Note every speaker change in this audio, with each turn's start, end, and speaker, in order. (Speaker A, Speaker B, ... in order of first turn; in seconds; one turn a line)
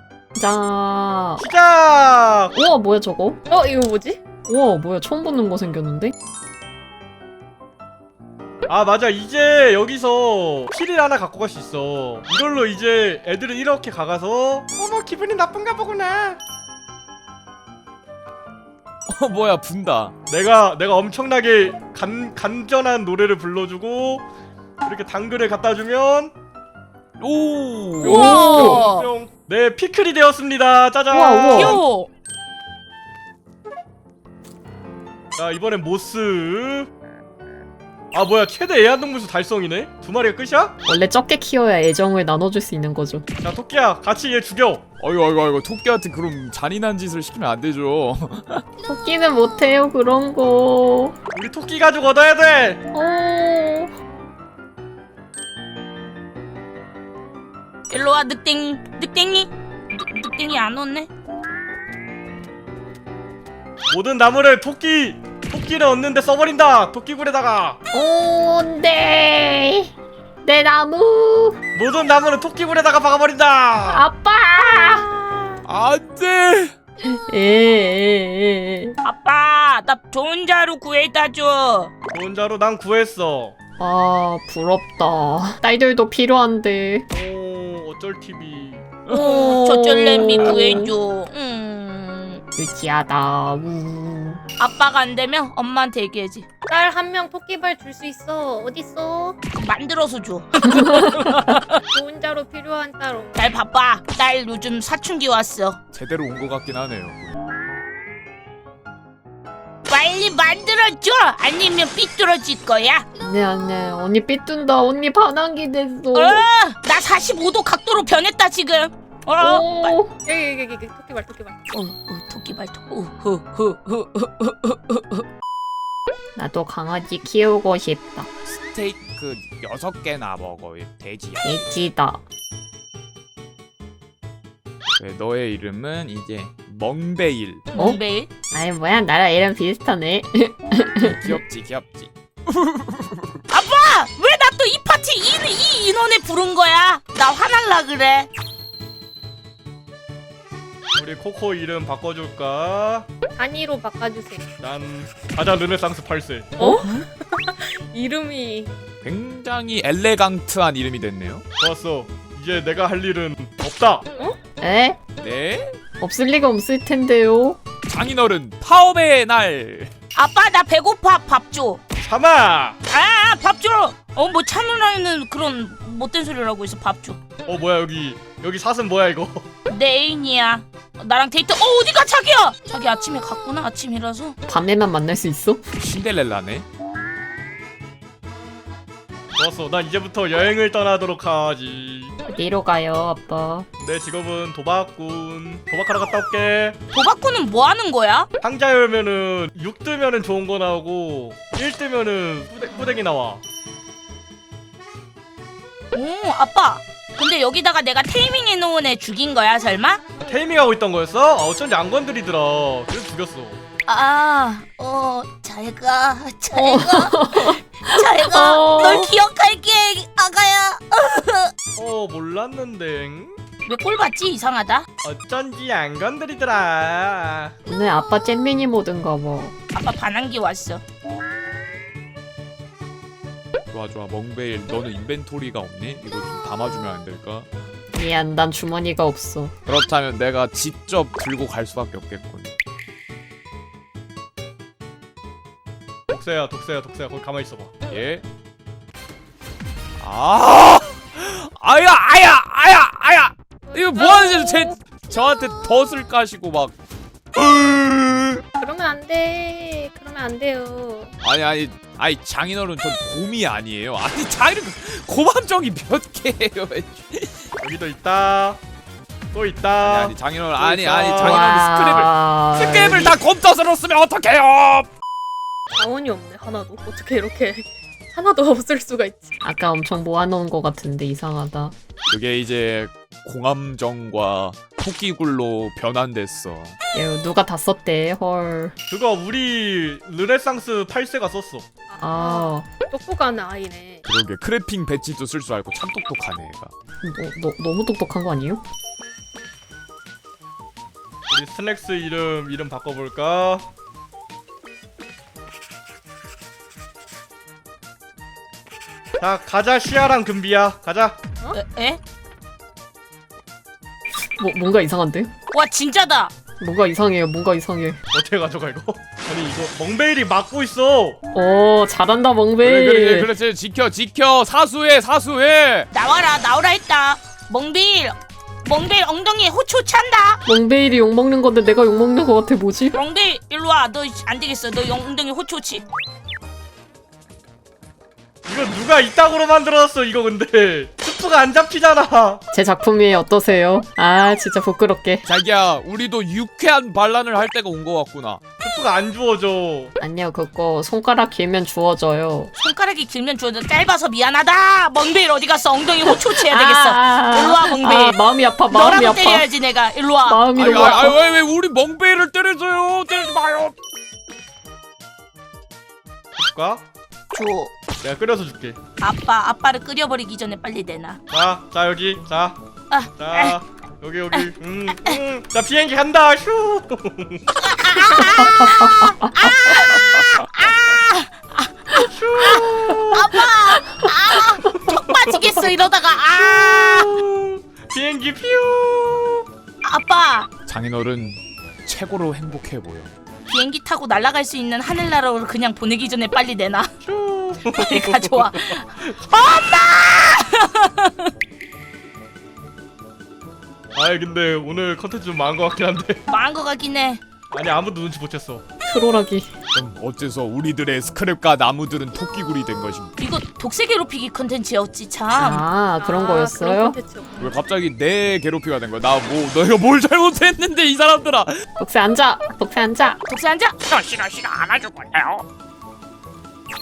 Speaker A: 0.3-1.4
Speaker B: 1.4-2.5
Speaker A: 2.5-3.4
Speaker C: 3.5-4.2
Speaker A: 4.5-6.1
Speaker B: 8.7-16.4
Speaker D: 19.1-20.1
Speaker B: 20.3-24.2
Speaker B: 24.8-26.3
Speaker D: 27.2-28.2
Speaker E: 28.0-29.1
Speaker B: 28.0-31.8
Speaker A: 28.1-28.8
Speaker A: 31.1-31.8
Speaker E: 31.5-32.1
Speaker B: 35.4-36.9
Speaker B: 38.1-40.7
Speaker A: 40.9-43.2
Speaker B: 43.4-44.8
Speaker D: 45.0-48.6
Speaker A: 48.9-51.1
Speaker B: 51.3-52.8
Speaker A: 52.9-53.9
Speaker E: 57.9-61.1
Speaker B: 63.9-67.8
Speaker A: 67.9-69.9
Speaker A: 70.4-71.6
Speaker B: 71.7-74.0
Speaker A: 73.9-75.0
Speaker D: 75.6-76.7
Speaker A: 77.1-78.9
Speaker E: 79.0-81.9
Speaker B: 82.1-83.5
Speaker A: 83.8-87.1
Speaker B: 87.1-89.0
Speaker D: 89.1-89.4
Speaker E: 89.1-92.4
Speaker A: 89.1-90.9
Speaker D: 90.4-90.7
Speaker A: 92.6-94.4
Speaker E: 94.6-96.5
Speaker C: 96.7-99.4
Speaker E: 99.5-101.8
Speaker C: 101.9-103.5
Speaker E: 103.3-105.8
Speaker D: 105.9-107.3
Speaker E: 109.9-113.0
Speaker A: 113.2-116.4
Speaker E: 116.1-120.0
Speaker A: 119.4-120.1
Speaker C: 120.2-121.5
Speaker E: 121.7-125.2
Speaker A: 126.3-128.3
Speaker D: 128.4-131.8
Speaker A: 131.4-132.2
Speaker D: 135.0-137.7
Speaker E: 137.7-138.3
Speaker A: 137.7-138.0
Speaker A: 138.5-141.4
Speaker D: 141.0-143.4
Speaker E: 143.5-148.3
Speaker B: 151.0-153.1
Speaker C: 153.4-154.5
Speaker B: 154.6-156.6
Speaker C: 156.6-158.7
Speaker E: 156.8-157.0
Speaker D: 159.0-161.4
Speaker B: 161.6-164.1
Speaker A: 164.6-165.0
Speaker D: 165.2-165.8
Speaker A: 166.0-167.6
Speaker D: 167.8-169.9
Speaker E: 170.1-171.8
Speaker B: 172.0-172.8
Speaker E: 172.9-177.2
Speaker B: 177.4-179.4
Speaker E: 179.7-184.3
Speaker A: 184.5-185.6
Speaker D: 185.8-186.7
Speaker B: 189.3-192.1
Speaker A: 192.3-193.7
Speaker B: 193.8-196.8
Speaker E: 196.9-198.3
Speaker B: 198.4-203.4
Speaker E: 205.9-210.0
Speaker B: 210.2-213.6
Speaker E: 213.9-221.5
Speaker A: 216.5-219.1
Speaker B: 221.8-223.4
Speaker E: 223.7-224.8
Speaker B: 225.0-227.5
Speaker A: 227.7-229.5
Speaker E: 229.7-230.8
Speaker D: 233.7-237.5
Speaker A: 237.9-239.5
Speaker D: 239.7-242.5
Speaker B: 246.1-247.7
Speaker D: 247.9-248.2
Speaker D: 250.0-256.7
Speaker C: 253.7-254.8
Speaker D: 257.3-258.4
Speaker C: 258.6-261.1
Speaker D: 261.2-267.4
Speaker B: 267.6-268.6
Speaker B: 269.3-271.4
Speaker D: 269.8-274.9
Speaker A: 271.2-273.2
Speaker C: 275.7-279.3
Speaker A: 279.4-281.7
Speaker D: 282.1-286.8
Speaker A: 286.9-288.7
Speaker B: 288.9-291.7
Speaker C: 291.9-294.0
Speaker A: 292.0-292.7
Speaker D: 294.0-296.7
Speaker A: 297.0-298.6
Speaker B: 301.3-303.6
Speaker B: 309.2-311.2
Speaker E: 311.5-312.0
Speaker A: 314.4-315.3
Speaker E: 315.5-316.3
Speaker A: 316.6-318.0
Speaker B: 318.1-321.2
Speaker A: 321.3-323.3
Speaker D: 322.6-325.9
Speaker E: 325.9-330.4
Speaker A: 330.4-333.0
Speaker E: 332.9-335.8
Speaker B: 338.4-342.4
Speaker A: 342.5-345.2
Speaker D: 345.2-348.4
Speaker B: 348.6-349.9
Speaker A: 350.0-352.5
Speaker E: 352.6-358.1
Speaker A: 356.0-359.5
Speaker E: 358.7-360.4
Speaker A: 360.2-361.2
Speaker D: 360.5-363.7
Speaker B: 366.4-366.8
Speaker E: 367.3-367.7
Speaker B: 368.0-368.8
Speaker E: 369.0-371.2
Speaker B: 371.3-372.6
Speaker E: 372.9-373.6
Speaker B: 373.2-377.4
Speaker E: 374.3-375.2
Speaker E: 377.5-387.2
Speaker A: 378.2-379.3
Speaker B: 381.9-383.2
Speaker B: 385.2-385.5
Speaker B: 386.4-389.4
Speaker E: 389.8-390.5
Speaker D: 390.7-393.1
Speaker E: 393.5-396.9
Speaker B: 397.0-398.8
Speaker E: 397.6-401.3
Speaker B: 403.9-406.2
Speaker E: 406.3-407.2
Speaker B: 407.5-408.6
Speaker A: 408.8-409.5
Speaker D: 409.7-413.1
Speaker E: 413.2-415.6
Speaker A: 415.3-417.0
Speaker C: 415.9-417.6
Speaker D: 417.4-421.5
Speaker A: 421.8-423.2
Speaker E: 423.3-423.8
Speaker D: 423.8-425.4